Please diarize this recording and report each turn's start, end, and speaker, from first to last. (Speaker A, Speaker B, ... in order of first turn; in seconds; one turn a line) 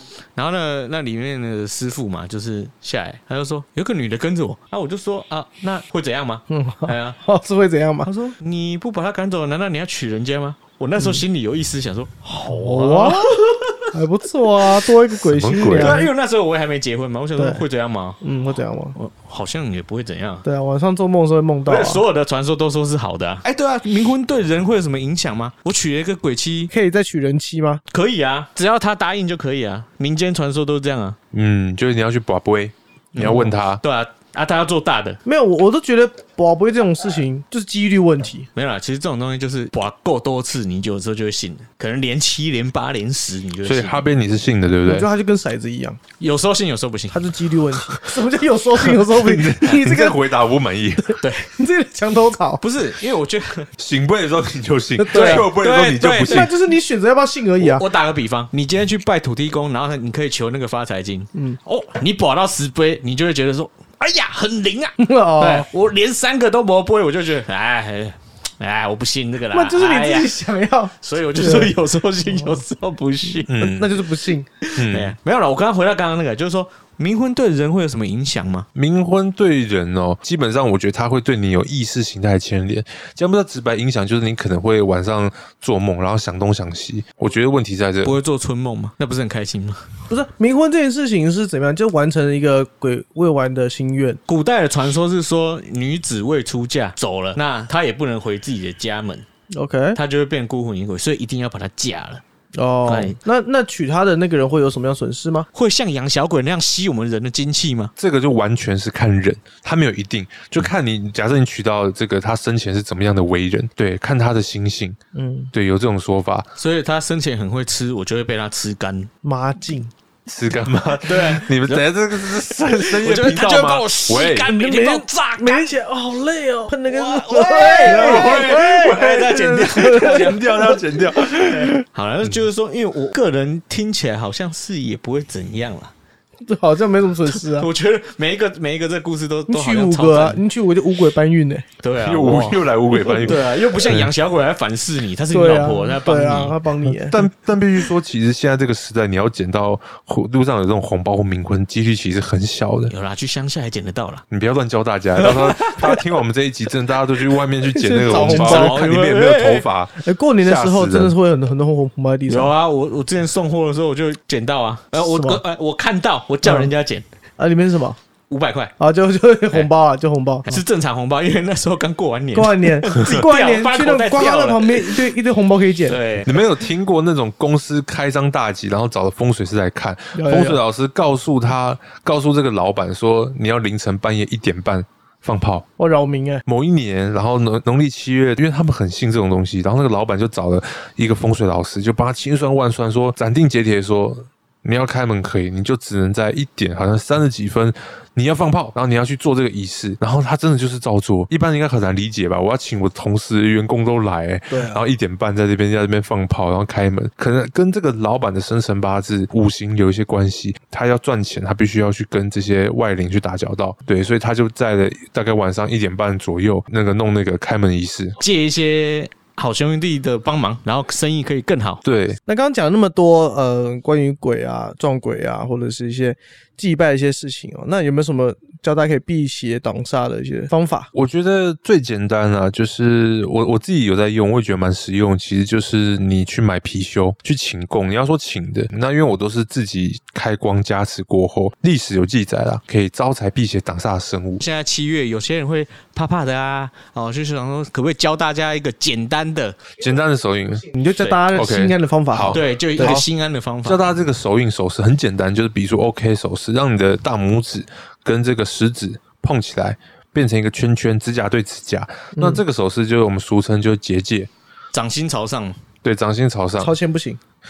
Speaker A: 0.4-7.2
Speaker B: 6.5-8.1
Speaker A: 8.1-13.9
Speaker B: 11.0-11.2
Speaker B: 12.3-13.4
Speaker B: 13.9-16.1
Speaker C: 15.2-16.1
Speaker A: 15.7-18.2
Speaker B: 17.4-17.6
Speaker B: 18.2-19.0
Speaker A: 19.0-20.5
Speaker B: 20.4-22.0
Speaker A: 21.7-26.7
Speaker B: 26.7-27.8
Speaker A: 27.9-31.2
Speaker C: 31.3-33.8
Speaker A: 33.1-35.2
Speaker B: 35.2-38.5
Speaker A: 38.6-44.0
Speaker C: 43.6-45.1
Speaker B: 44.9-46.0
Speaker A: 46.2-47.3
Speaker B: 47.1-50.3
Speaker C: 49.0-51.2
Speaker A: 51.2-51.5
Speaker B: 51.6-52.6
Speaker A: 52.6-53.7
Speaker C: 53.8-56.5
Speaker B: 55.0-55.5
Speaker A: 55.1-56.5
Speaker B: 56.3-57.9
Speaker A: 57.6-70.4
Speaker B: 65.0-65.7
Speaker B: 69.5-71.8
Speaker A: 71.0-73.5
Speaker B: 72.3-72.6
Speaker C: 73.5-73.9
Speaker B: 73.5-74.5
Speaker A: 74.6-78.7
Speaker C: 74.8-75.2
Speaker C: 78.8-88.2
Speaker A: 88.0-89.9
Speaker B: 90.1-94.2
Speaker A: 94.3-99.3
Speaker B: 99.5-100.0
Speaker A: 100.0-102.2
Speaker B: 102.5-105.5
Speaker A: 102.9-103.2
Speaker A: 105.5-107.9
Speaker C: 108.0-115.0
Speaker B: 115.1-115.5
Speaker C: 115.5-116.5
Speaker A: 116.6-119.1
Speaker B: 119.2-119.9
Speaker C: 120.3-124.5
Speaker A: 121.0-125.7
Speaker B: 124.5-130.7
Speaker A: 126.9-130.7
Speaker C: 127.8-132.4
Speaker A: 131.5-135.9
Speaker B: 136.4-137.7
Speaker A: 137.3-140.4
Speaker B: 139.5-141.7
Speaker A: 141.8-146.6
Speaker C: 142.0-144.1
Speaker B: 145.3-147.2
Speaker C: 146.9-152.9
Speaker A: 152.9-154.2
Speaker C: 154.3-161.2
Speaker A: 155.2-156.0
Speaker B: 157.7-158.9
Speaker A: 158.1-159.7
Speaker B: 160.0-162.5
Speaker A: 162.3-167.1
Speaker B: 165.0-165.4
Speaker B: 166.4-166.7
Speaker B: 167.4-168.0
Speaker A: 168.3-168.7
Speaker B: 168.8-170.6
Speaker A: 170.5-175.1
Speaker B: 172.3-176.0
Speaker A: 175.9-176.4
Speaker C: 176.2-185.7
Speaker B: 180.2-180.6
Speaker B: 185.8-186.4
Speaker C: 186.5-218.2
Speaker B: 204.5-204.8
Speaker A: 218.2-221.8
Speaker C: 221.8-222.2
Speaker B: 222.3-230.9
Speaker C: 230.9-244.4
Speaker A: 244.4-249.6
Speaker C: 249.8-250.7
Speaker B: 250.7-253.0
Speaker A: 251.0-251.3
Speaker C: 251.3-253.0
Speaker A: 252.3-253.8
Speaker C: 253.7-264.3
Speaker B: 262.1-262.4
Speaker A: 264.7-265.6
Speaker C: 265.8-266.7
Speaker B: 266.6-267.2